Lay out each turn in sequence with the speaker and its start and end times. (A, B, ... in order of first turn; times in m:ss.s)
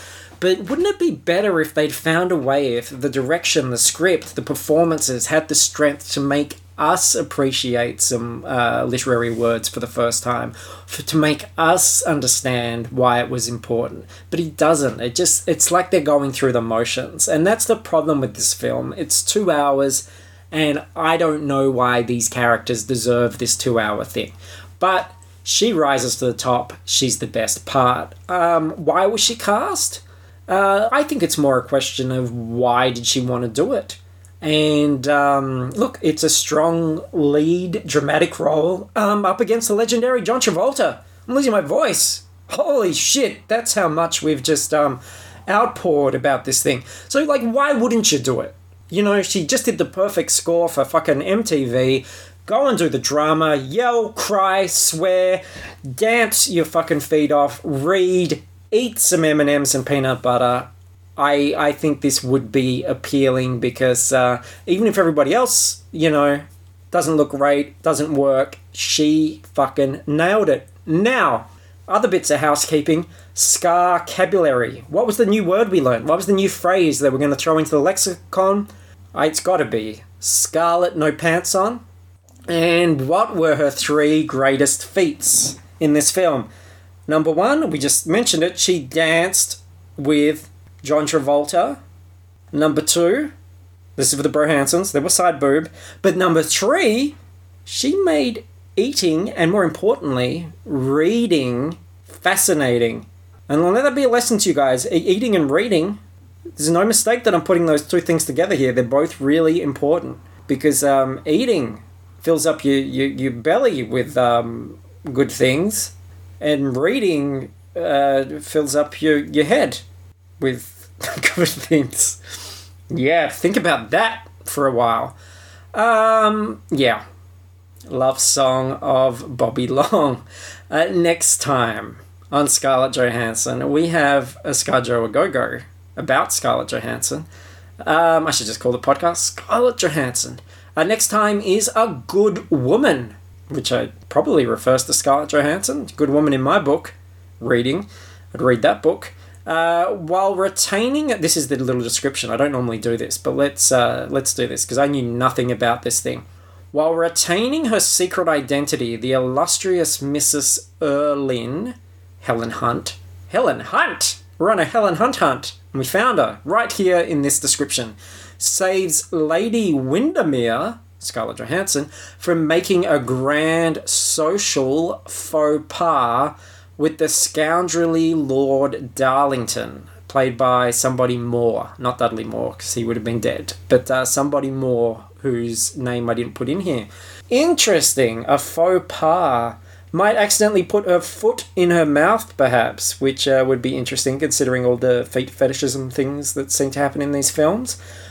0:00.4-1:21.8 A
1:22.5-1:26.5 A
1:27.1-1:31.8 A
1:32.5-1:33.3 A
1:34.0-1:46.0 A
1:46.6-1:59.8 A
2:00.4-2:02.2 A
2:02.9-2:05.2 A
2:05.7-2:07.0 A
2:07.9-2:17.3 A
2:17.8-3:17.8 A